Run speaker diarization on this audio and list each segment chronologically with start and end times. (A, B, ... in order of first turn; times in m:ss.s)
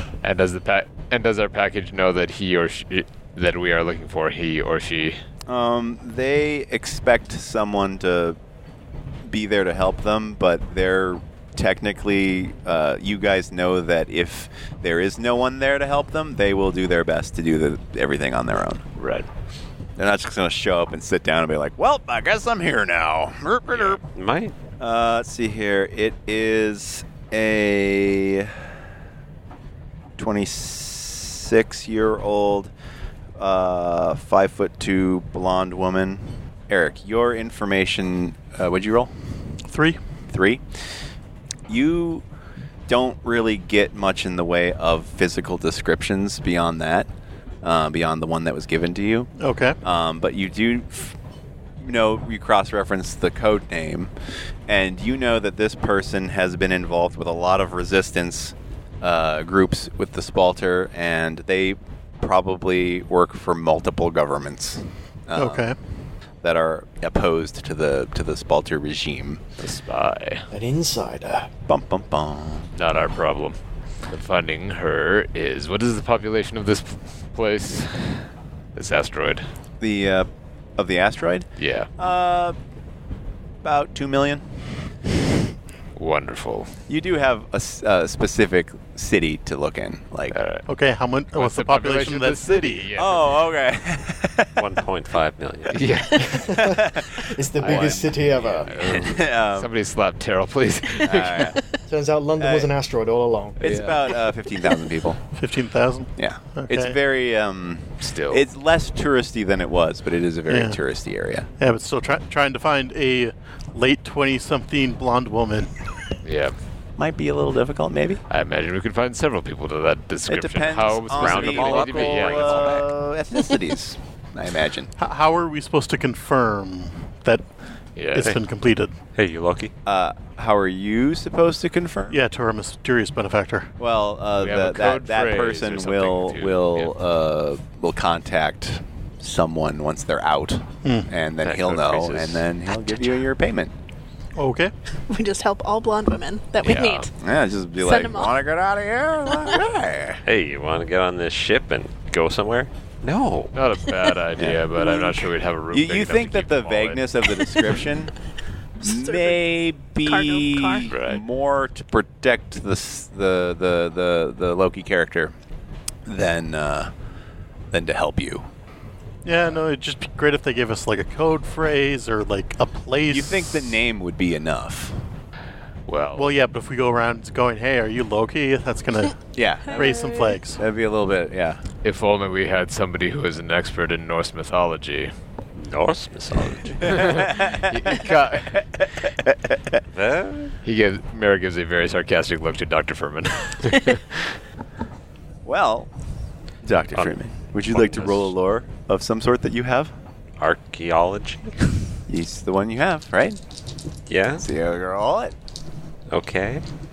0:00.2-0:05.2 A
0:05.5-0:08.4 B
0:09.2-0:19.1 B
0:20.0-0:24.0 B
0:23.7-0:24.6 C
0:24.8-0:28.6 B
0:30.2-0:32.7 B
0:33.4-0:39.1 B
0:39.7-0:40.0 D
0:40.3-0:40.6 B
0:41.7-0:42.2 B
0:42.9-0:47.1 B
0:47.6-0:49.3 B
0:49.4-0:49.8 D
0:49.8-0:51.2 B
0:51.8-0:54.1 B
0:54.7-1:05.7 B
1:05.4-1:05.8 D
1:06.4-1:09.4 B
1:09.6-1:10.4 A
1:10.5-1:11.5 E
1:11.7-1:12.7 B
1:12.8-1:13.6 A
1:14.1-1:19.4 A
1:19.8-1:21.5 B
1:21.6-1:21.9 A
1:22.0-1:22.6 B
1:23.6-1:24.6 B
1:26.0-1:26.7 A
1:26.9-1:30.4 B
1:30.3-1:30.7 A
1:30.7-1:32.9 D
1:31.3-1:33.2 A
1:32.9-1:34.6 B
1:34.6-1:35.8 C
1:35.7-1:36.6 A
1:36.2-1:36.8 E
1:36.6-1:37.1 B
1:37.4-1:38.7 E
1:37.6-1:41.5 A
1:37.6-1:38.1 B
1:38.7-1:39.1 C
1:38.8-1:39.7 B
1:41.0-1:41.6 B
1:41.9-1:43.6 E
1:42.4-1:42.7 B
1:43.6-1:45.2 B
1:43.6-1:44.0 A
1:45.3-1:47.0 D
1:46.2-1:51.5 B
1:48.0-1:48.4 A
1:50.5-1:50.8 D
1:51.6-1:55.8 D
1:56.2-1:56.6 A
1:57.0-1:58.2 B
1:58.3-2:02.8 A
2:00.3-2:04.9 B
2:01.1-2:02.9 C
2:05.0-2:07.5 D
2:08.0-2:08.3 A
2:08.1-2:08.9 D
2:09.1-2:09.7 C
2:09.9-2:12.2 B
2:12.1-2:13.7 D
2:13.8-2:23.7 B
2:14.4-2:16.9 A
2:20.8-2:21.1 D
2:21.4-2:22.4 C
2:24.4-2:24.7 D
2:25.1-2:27.1 F
2:26.6-2:27.1 A
2:27.2-2:30.2 B
2:27.8-2:28.4 F
2:30.2-2:33.6 C
2:33.5-2:37.0 A
2:34.4-2:38.1 B
2:38.8-2:45.4 B
2:38.8-2:39.4 F
2:40.0-2:40.9 F
2:40.9-2:41.2 A
2:46.1-2:46.9 B
2:47.7-2:48.5 B
2:49.2-2:53.8 D
2:53.1-2:55.0 B
2:55.9-2:56.3 A
2:56.1-2:59.2 D
2:59.4-2:59.9 B
2:59.7-3:00.4 F
2:59.7-3:00.6 D
3:00.6-3:01.6 B
3:01.8-3:05.1 A
3:05.6-3:07.1 C
3:06.8-3:08.6 A
3:06.8-3:08.0 B
3:08.6-3:09.8 B
3:09.9-3:10.6 C
3:10.6-3:14.3 A
3:15.4-3:15.9 B
3:16.6-3:19.9 B
3:20.4-3:21.7 C
3:22.1-3:23.4 B
3:24.1-3:24.4 C
3:24.4-3:25.3 B
3:26.1-3:26.6 C